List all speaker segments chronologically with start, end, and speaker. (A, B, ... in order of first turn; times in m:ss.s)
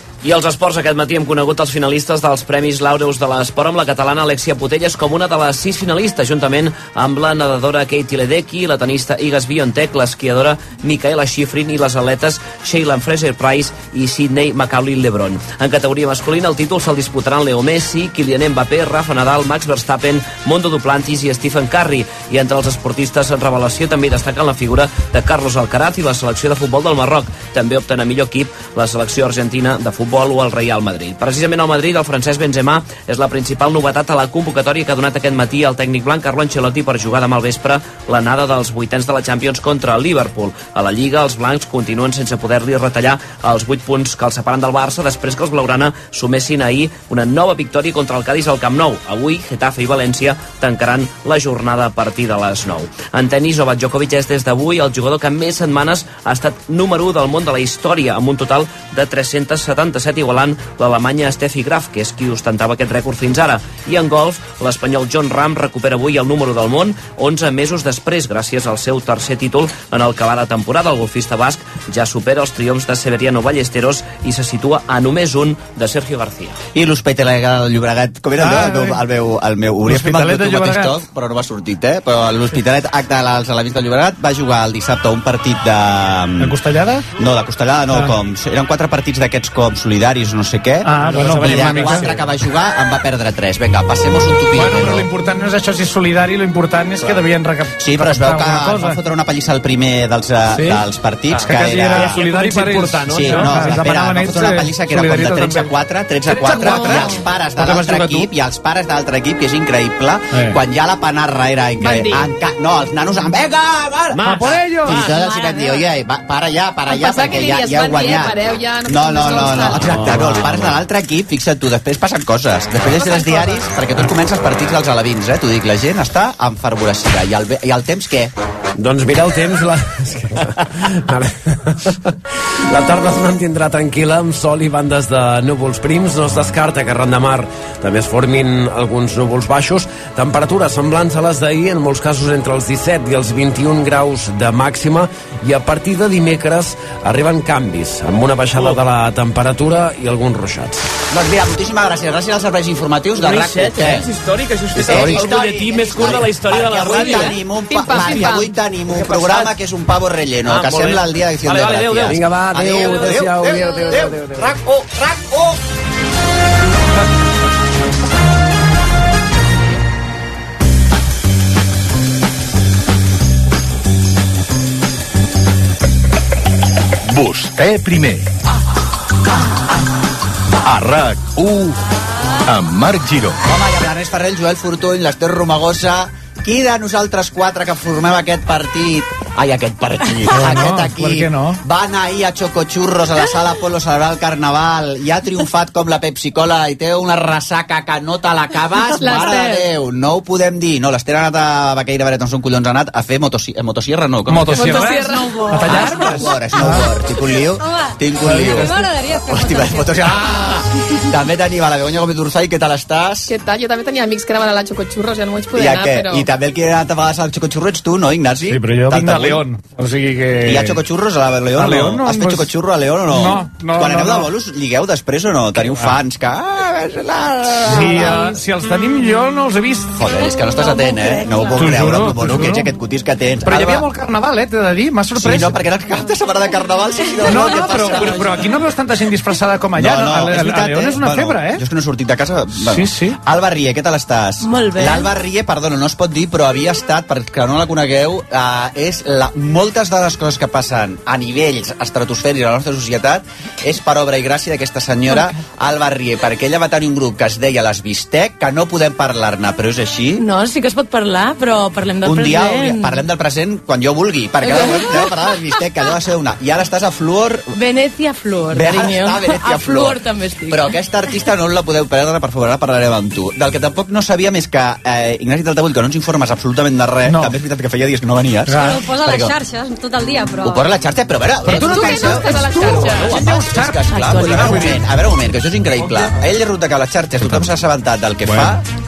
0:00.2-1:16.6 A
1:16.7-1:26.6 B
1:18.4-1:19.0 C
1:19.8-1:21.0 C
1:26.4-1:27.0 C
1:27.1-1:35.1 B
1:30.8-1:32.1 C
1:34.5-1:39.0 C
1:37.0-2:08.3 B
1:40.5-1:40.8 C
1:41.4-1:45.7 C
1:42.6-1:43.2 A
1:46.3-1:48.3 C
1:50.3-1:50.6 C
1:51.8-1:52.3 D
1:54.2-1:55.1 C
1:56.9-2:00.0 D
2:03.0-2:03.6 D
2:08.8-2:12.1 E
2:12.7-2:30.9 E
2:31.1-2:34.0 B
2:33.2-2:37.4 A
2:34.8-2:45.6 B
2:36.9-2:39.2 D
2:37.9-2:38.4 A
2:40.4-2:43.1 A
2:42.2-2:43.6 E
2:57.1-2:58.2 F
3:00.6-3:01.8 F
3:02.4-3:03.3 F
3:03.4-3:24.9 B
3:10.3-3:11.6 C
3:19.0-3:19.5 G
3:19.1-3:19.4 D
3:24.3-3:26.9 C
3:24.6-3:25.6 G
3:25.6-3:28.7 B
3:27.4-3:30.0 H
3:28.2-3:28.6 C
3:29.3-3:33.3 B
3:33.3-3:36.3 D
3:35.5-3:39.4 B
3:38.5-3:40.8 C
3:40.4-3:48.4 B
3:41.5-3:42.5 C
3:43.1-3:44.3 C
3:47.6-3:49.9 C
3:49.9-3:53.9 B
3:50.6-3:51.2 H
3:51.5-3:52.7 C
3:53.4-3:55.6 C
3:55.1-3:58.4 B
3:57.2-4:01.6 C
3:59.8-4:20.2 B
4:02.6-4:03.2 C
4:04.4-4:05.1 G
4:20.2-4:23.0 G
4:22.0-4:27.5 B
4:24.4-4:25.1 G
4:27.5-4:30.7 G
4:28.5-4:39.3 B
4:37.0-4:37.3 C
4:38.5-4:38.8 C
4:38.5-4:40.6 H
4:40.4-4:48.6 B
4:41.4-4:44.8 C
4:41.6-4:43.2 D
4:41.7-4:42.2 G
4:43.9-4:44.8 G
4:45.8-4:46.1 C
4:48.2-4:48.5 C